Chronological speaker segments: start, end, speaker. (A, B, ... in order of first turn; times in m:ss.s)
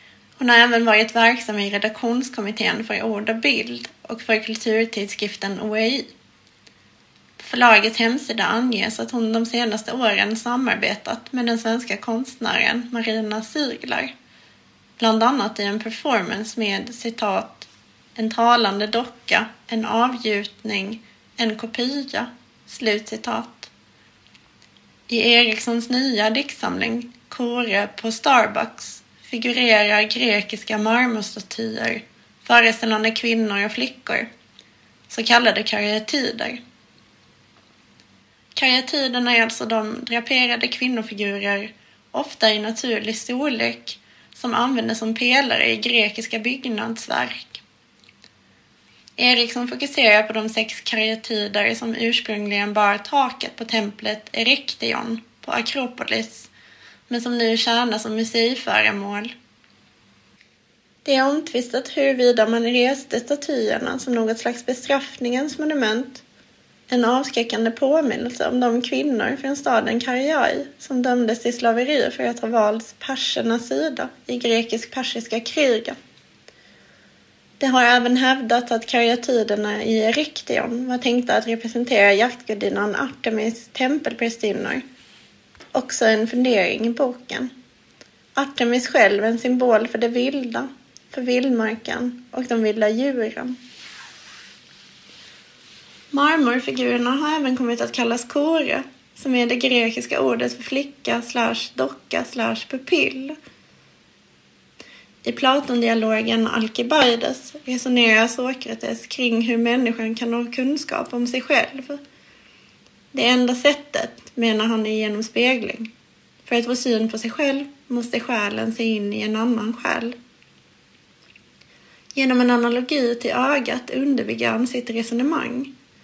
0:00.4-0:06.1 A
0:07.4-0:14.1 A
0:15.0-0:23.7 A
0:25.1-0:34.3 A
0:35.1-0:36.6 A
0:38.6-0:47.6 A
0:49.2-0:56.5 A
0:57.1-0:59.3 A
1:01.0-1:06.2 A
1:06.9-1:16.0 A
1:17.6-1:24.8 A
1:25.7-1:27.5 A
1:28.4-1:33.6 A
1:36.1-1:43.3 A
1:45.2-1:52.0 A
1:53.1-1:55.9 A
1:56.4-2:00.1 A
2:02.1-2:05.7 A